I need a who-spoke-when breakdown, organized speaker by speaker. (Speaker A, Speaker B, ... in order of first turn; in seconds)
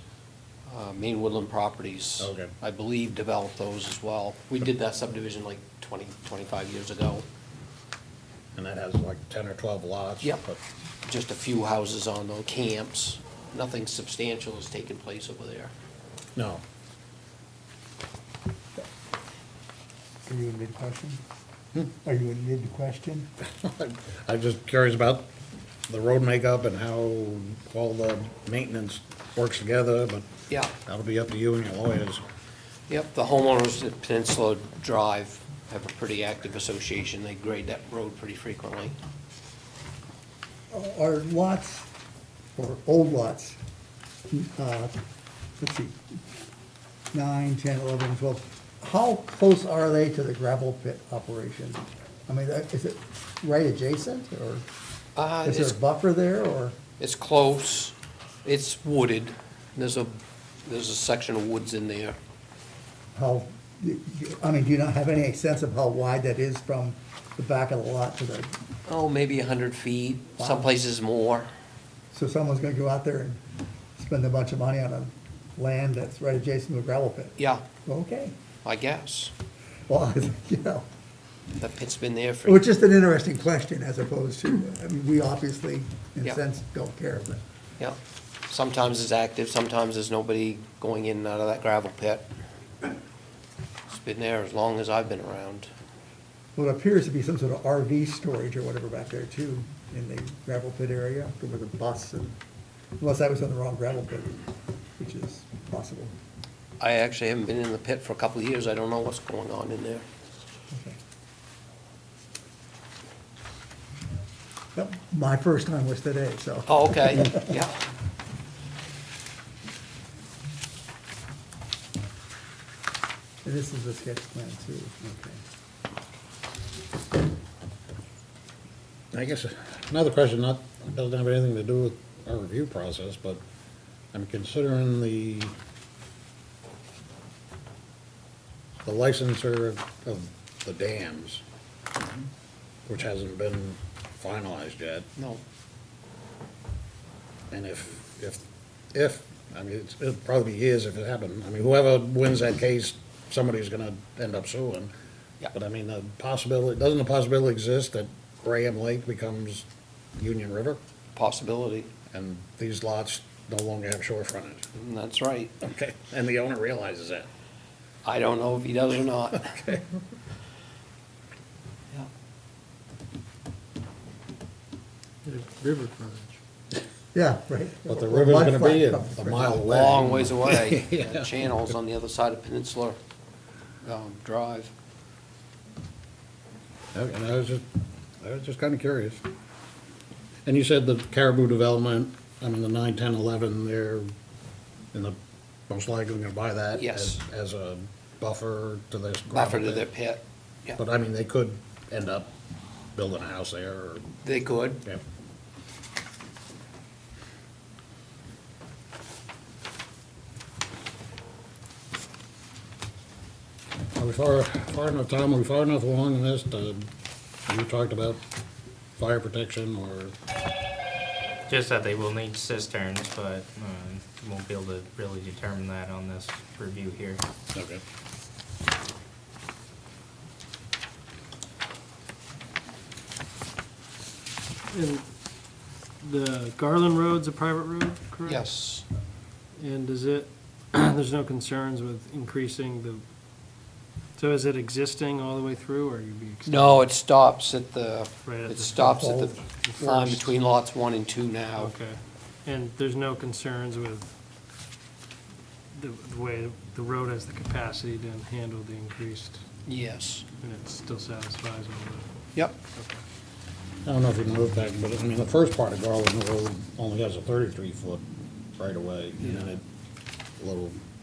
Speaker A: 0.7-7.2, 11.0-15.7, 30.5-30.7, 32.9-39.0, 55.1-55.8, 57.0-62.2, 68.9-71.5, 77.4-77.6, 78.6-79.3, 81.6-82.6, 88.5-92.3, 93.9-95.7, 106.8-110.0, 116.7-117.8, 145.2-145.4, 161.1-161.9, 164.7-165.6, 168.0-169.6, 179.6-183.0, 183.8-184.7, 196.7-197.2, 199.3-200.8, 204.2-204.8, 238.2-238.8, 246.4-251.7, 259.6-260.2, 269.2-269.5
Speaker B: 2.2-2.5, 8.5-10.6, 16.4-16.6, 23.6-25.3, 25.9-30.3, 30.9-32.2, 129.1-133.4, 134.1-135.5, 138.8-141.4, 142.9-145.1, 147.5-154.9, 155.5-160.8, 162.1-164.6, 165.6-167.3, 169.5-169.8, 177.9-181.3, 186.9-187.6, 188.2-189.2, 190.4-194.1, 195.7-199.9, 200.8-202.3, 202.9-204.1, 213.9-216.9, 217.5-218.2, 219.0-220.1, 227.5-227.8, 263.8-268.0, 268.6-269.6, 270.4-270.8
Speaker C: 20.2-21.2, 22.0-23.3, 40.7-41.9, 42.5-43.6, 44.3-44.9, 45.6-46.1, 47.1-54.6, 55.4-56.8, 63.1-68.5, 70.4-70.7, 72.1-73.4, 74.0-78.3, 79.9-80.9, 82.4-87.4, 96.5-102.3, 103.0-104.4, 105.0-106.1, 114.7-117.5, 123.4-125.4, 177.1-179.7, 248.8-250.2
Speaker D: 175.2-176.4, 234.7-235.0, 236.0-238.5, 239.6-243.0, 244.2-246.8, 248.2-249.1, 249.6-250.2, 251.6-254.1, 255.7-259.4, 260.4-263.0
Speaker E: 221.5-227.2